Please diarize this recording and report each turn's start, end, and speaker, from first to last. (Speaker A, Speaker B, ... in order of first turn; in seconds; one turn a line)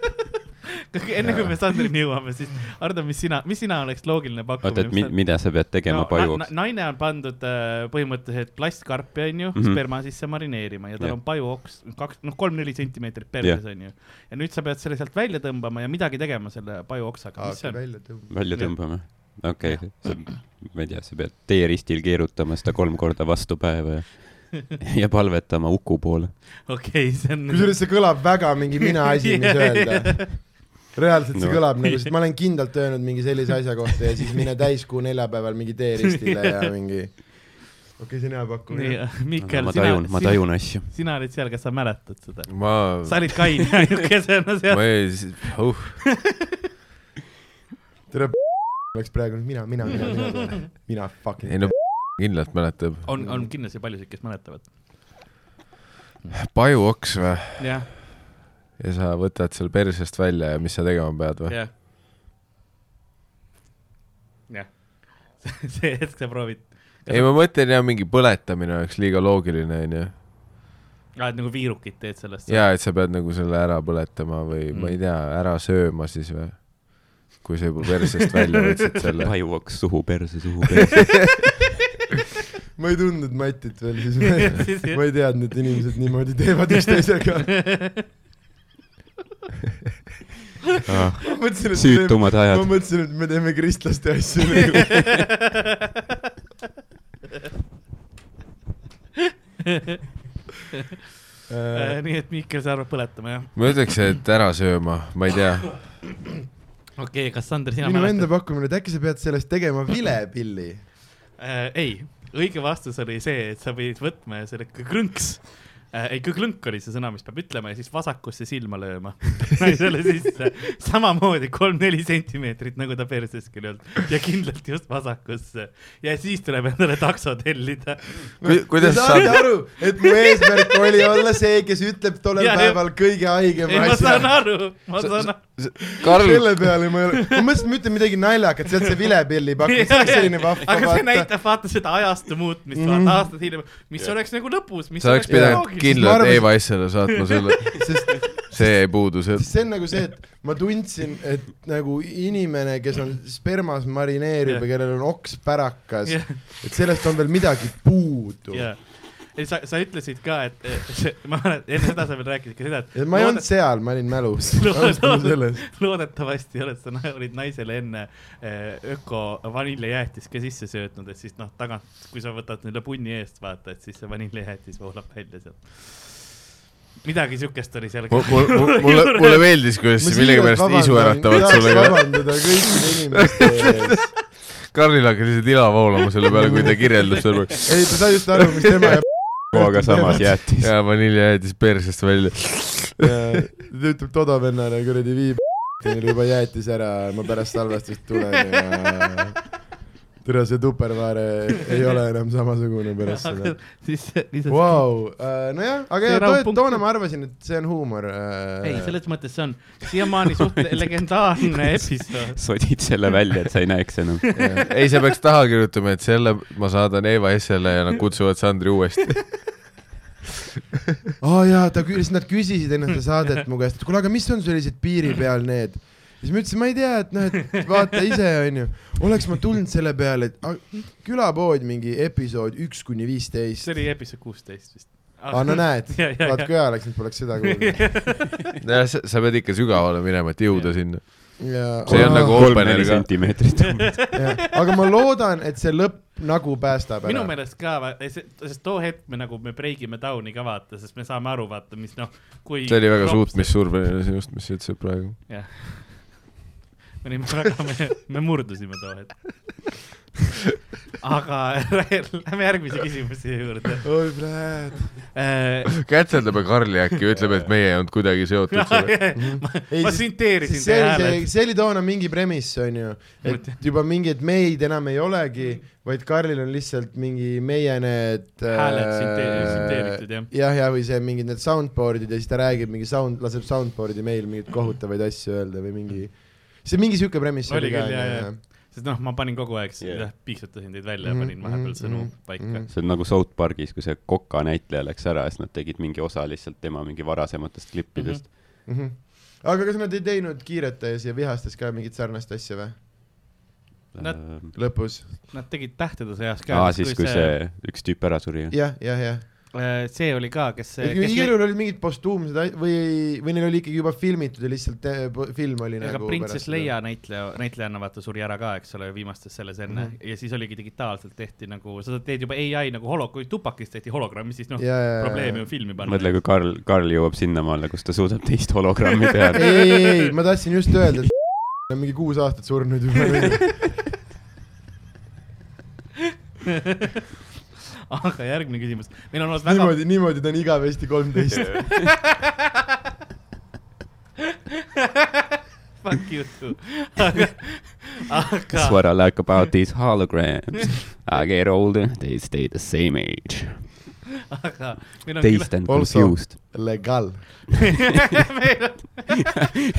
Speaker A: 0.9-20.3
Speaker B: 1.2-1.8
Speaker B: 4.6-6.5
Speaker B: 9.5-10.3
Speaker C: 17.4-18.3
Speaker B: 18.3-26.4
Speaker A: 26.6-28.4
Speaker C: 27.5-39.0
Speaker A: 29.1-30.3
Speaker B: 31.3-31.7
Speaker A: 31.8-32.1
Speaker A: 38.7-46.4
Speaker B: 39.4-40.9
Speaker D: 42.5-43.4
Speaker D: 44.7-46.1
Speaker C: 48.1-51.7
Speaker D: 51.5-53.1
Speaker A: 53.0-54.7
Speaker C: 53.1-53.5
Speaker A: 56.2-56.5
Speaker D: 56.4-58.2
Speaker A: 57.6-57.9
Speaker D: 58.8-61.6
Speaker A: 61.5-61.7
Speaker A: 64.5-67.3
Speaker D: 67.1-70.1
Speaker A: 71.2-72.7
Speaker D: 72.5-79.3
Speaker A: 74.7-75.0
Speaker B: 79.2-81.4
Speaker C: 82.8-87.6
Speaker A: 84.4-85.5
Speaker A: 87.6-88.0
Speaker B: 90.8-92.7
Speaker C: 91.3-95.2
Speaker C: 101.5-102.0
Speaker A: 101.7-104.0
Speaker D: 103.5-106.0
Speaker A: 107.0-108.3
Speaker C: 107.8-110.8
Speaker A: 111.4-128.4
Speaker C: 128.4-134.8
Speaker D: 128.4-129.7
Speaker A: 132.4-136.1
Speaker D: 135.0-136.9
Speaker C: 136.0-141.3
Speaker A: 139.6-146.4
Speaker C: 142.7-143.2
Speaker D: 145.0-150.0
Speaker C: 145.3-146.8
Speaker C: 147.8-158.7
Speaker A: 156.1-156.6
Speaker A: 158.5-176.2
Speaker C: 162.9-165.6
Speaker A: 177.0-179.4
Speaker D: 178.1-182.6
Speaker C: 180.0-184.2
Speaker D: 183.1-188.2
Speaker C: 186.3-186.8
Speaker C: 187.6-190.2
Speaker B: 189.4-190.7
Speaker D: 190.5-193.1
Speaker C: 193.0-199.6
Speaker C: 200.2-203.8
Speaker A: 203.0-205.3
Speaker C: 204.4-209.0
Speaker A: 206.0-206.8
Speaker A: 208.6-212.4
Speaker B: 210.6-214.3
Speaker D: 214.4-219.7
Speaker C: 221.2-233.9
Speaker A: 233.6-238.4
Speaker C: 235.3-238.3
Speaker D: 238.6-243.5
Speaker A: 240.5-241.3
Speaker C: 241.4-242.8
Speaker B: 241.8-244.1
Speaker A: 244.0-244.3
Speaker C: 244.1-247.3
Speaker A: 247.0-253.6
Speaker D: 252.7-255.2
Speaker A: 255.3-256.3
Speaker A: 257.0-259.7
Speaker A: 261.0-263.9
Speaker C: 263.8-265.1
Speaker A: 265.1-266.1
Speaker D: 265.8-269.1
Speaker B: 267.2-267.5
Speaker A: 268.5-271.3
Speaker C: 269.1-288.4
Speaker A: 273.2-273.6
Speaker A: 278.5-280.3
Speaker A: 287.5-292.6
Speaker B: 289.8-290.1
Speaker C: 291.0-292.7
Speaker B: 292.7-298.4
Speaker A: 297.9-298.2
Speaker C: 298.6-302.8
Speaker B: 303.9-304.6
Speaker A: 304.0-307.3
Speaker C: 304.5-305.1
Speaker B: 306.5-308.5
Speaker C: 308.5-309.2
Speaker A: 309.5-311.4
Speaker C: 310.8-316.7
Speaker A: 315.8-326.1
Speaker C: 319.7-320.0
Speaker C: 324.6-325.5
Speaker B: 325.8-329.8
Speaker C: 329.3-333.8
Speaker A: 337.9-339.8
Speaker C: 339.4-341.7
Speaker B: 341.3-341.9
Speaker A: 341.8-342.1
Speaker A: 345.8-349.4
Speaker B: 348.5-353.7
Speaker A: 354.3-355.5
Speaker B: 355.2-356.5
Speaker C: 355.6-357.6
Speaker A: 358.0-359.3